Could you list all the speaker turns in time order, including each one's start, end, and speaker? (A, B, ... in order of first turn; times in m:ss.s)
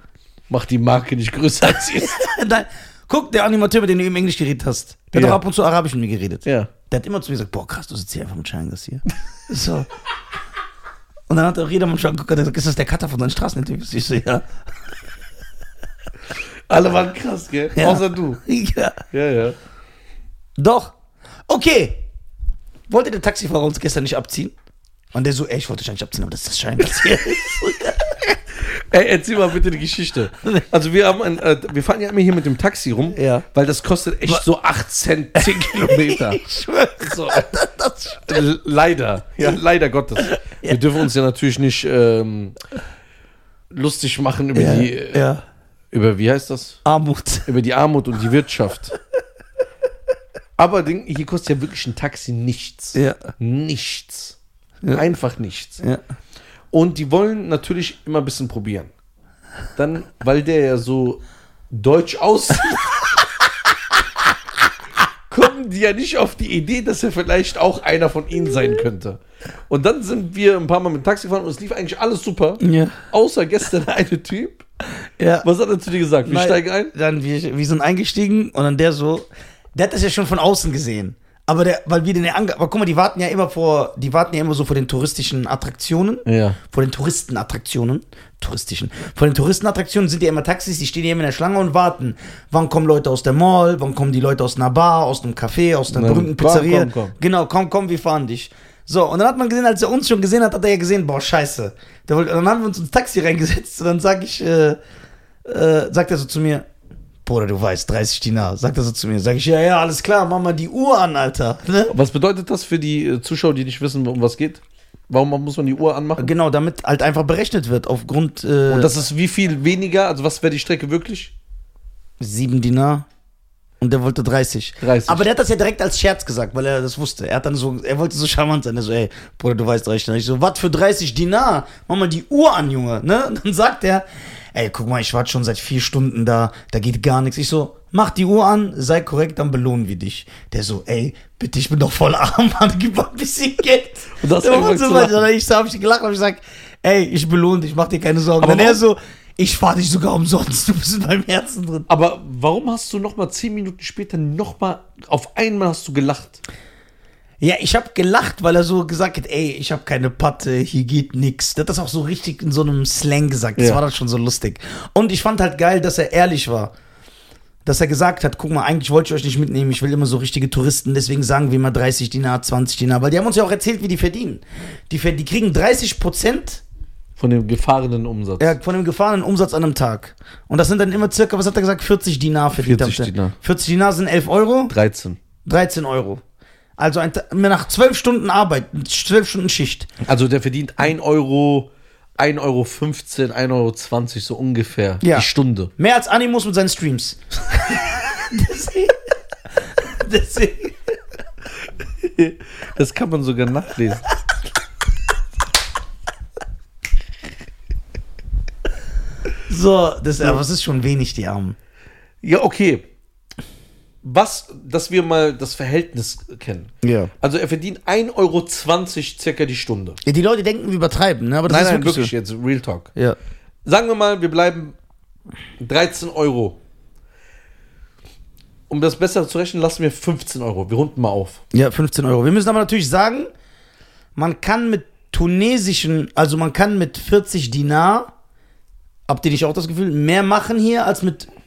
0:00.5-0:02.3 A
0:01.6-0:09.9 B
0:05.1-0:05.4 A
0:06.4-0:06.7 A
0:11.3-0:14.5 B
0:16.7-0:18.4 A
0:17.7-0:19.0 B
0:19.1-0:19.6 A
0:20.6-0:20.9 B
0:21.5-0:22.1 B
0:22.9-0:24.5 B
0:25.1-0:28.2 B
0:28.6-0:36.4 A
0:33.1-0:33.4 B
0:35.4-0:38.4 B
0:37.0-0:37.5 A
0:38.2-0:42.6 A
0:40.2-0:40.8 B
0:43.7-0:45.2 A
0:44.5-0:45.4 B
0:45.9-0:46.8 A
0:46.8-0:47.5 B
0:47.5-0:48.9 A
0:50.6-0:54.4 A
0:52.9-0:53.3 B
0:54.9-0:55.8 A
0:56.7-0:58.9 A
0:59.8-1:02.9 A
1:05.3-1:14.6 A
1:12.6-1:13.0 B
1:15.2-1:15.5 B
1:15.4-1:16.9 A
1:16.2-1:44.8 B
1:26.2-1:26.6 A
1:35.9-1:37.1 A
1:45.4-1:46.6 B
1:47.2-1:51.9 B
1:51.9-1:56.3 A
1:56.2-1:58.9 B
1:58.7-2:01.3 A
2:02.2-2:03.1 B
2:03.8-2:31.9 B
2:04.8-2:05.2 A
2:24.1-2:25.3 A
2:28.4-2:28.8 A
2:31.9-2:36.4 A
2:37.4-2:46.7 B
2:47.6-2:56.6 B
2:57.2-2:58.6 A
2:58.4-3:04.7 B
3:02.6-3:03.4 A
3:04.7-3:05.2 A
3:05.4-3:06.2 B
3:06.8-3:09.9 B
3:10.0-3:15.7 A
3:15.0-3:19.0 B
3:19.6-3:20.9 B
3:22.0-3:24.1 A
3:29.5-3:31.6 B
3:32.2-3:32.9 A
3:34.0-3:40.0 A
3:36.8-3:37.1 B
3:40.0-3:42.1 B
3:41.5-3:42.9 A
3:43.6-3:44.7 A
3:45.6-3:46.6 A
3:48.7-3:51.4 A
3:51.5-3:53.3 B
3:54.2-3:58.1 B
3:59.1-4:01.3 B